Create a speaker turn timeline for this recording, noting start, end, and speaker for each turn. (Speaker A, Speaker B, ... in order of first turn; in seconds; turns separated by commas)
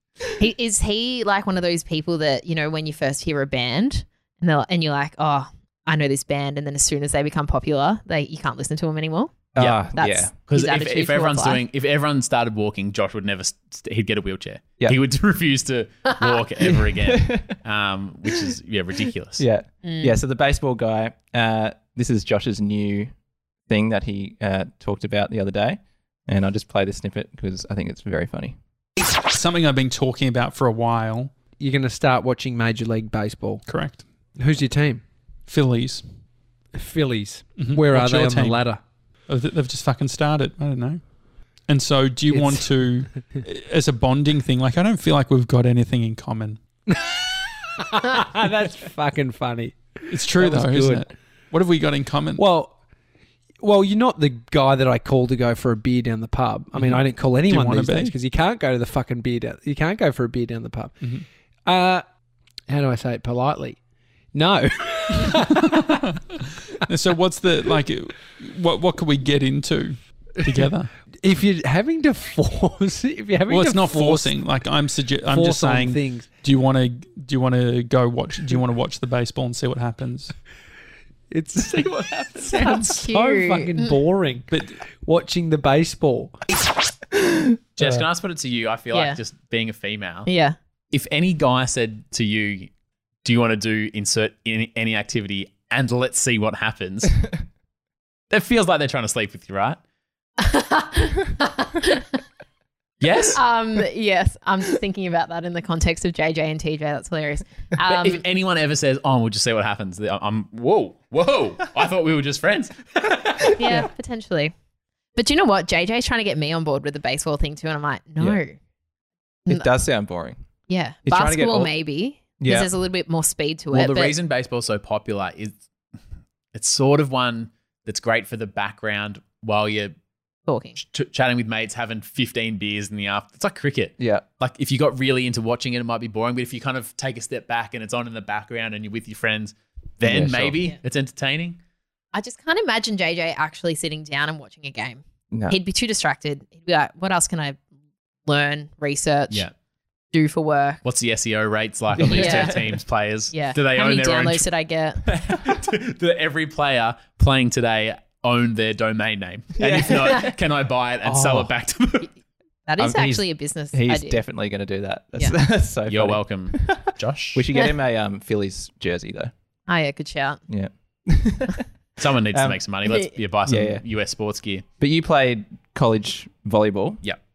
Speaker A: 0.4-11.6, Speaker B: 9.5-10.3, Speaker C: 10.5-19.4, Speaker B: 16.8-17.5, Speaker B: 19.4-23.1, Speaker A: 19.8-20.2, Speaker B: 23.7-28.6, Speaker D: 29.3-31.3, Speaker E: 31.6-33.6, Speaker D: 33.6-34.0, Speaker E: 34.4-35.0, Speaker D: 35.5-36.0, Speaker E: 36.7-38.8, Speaker D: 37.5-38.7, Speaker D: 39.3-41.0, Speaker D: 41.6-46.6, Speaker E: 42.3-42.7, Speaker E: 47.8-51.1, Speaker D: 50.1-52.4, Speaker E: 52.4-52.7, Speaker E: 53.6-61.1, Speaker D: 56.8-58.1, Speaker E: 61.6-62.0, Speaker E: 62.7-63.8, Speaker E: 64.3-66.0, Speaker D: 65.7-66.1, Speaker D: 66.9-70.9, Speaker E: 71.2-74.4, Speaker D: 73.5-80.3, Speaker E: 75.2-76.3, Speaker E: 81.3-86.3, Speaker A: 83.0-84.0, Speaker D: 84.5-84.7, Speaker C: 87.8-90.3, Speaker A: 90.3-90.5, Speaker C: 90.9-92.7, Speaker C: 93.2-97.2, Speaker C: 98.3-99.8, Speaker A: 100.4-102.1, Speaker C: 103.0-103.4, Speaker A: 103.3-108.2, Speaker C: 107.9-113.5, Speaker A: 113.5-114.5, Speaker A: 115.2-118.5, Speaker B: 119.5-120.4, Speaker A: 120.7-124.1, Speaker B: 121.0-121.7, Speaker B: 122.4-122.7, Speaker C: 123.7-125.6, Speaker C: 126.5-129.9, Speaker A: 130.5-130.8, Speaker C: 130.8-141.6, Speaker B: 134.0-134.2, Speaker B: 140.0-140.6, Speaker A: 142.1-147.6, Speaker B: 145.3-145.6, Speaker A: 148.3-149.5, Speaker A: 150.1-150.8, Speaker C: 150.8-154.5, Speaker B: 151.9-152.8, Speaker A: 152.1-152.6, Speaker A: 153.3-155.0, Speaker C: 155.1-162.1, Speaker B: 159.6-160.3, Speaker B: 161.0-161.5, Speaker A: 162.7-164.2, Speaker B: 162.8-169.3, Speaker C: 165.9-167.4, Speaker A: 169.7-170.4, Speaker B: 170.5-171.6, Speaker C: 172.0-174.6, Speaker B: 172.3-172.6, Speaker B: 173.4-173.8, Speaker B: 174.8-177.0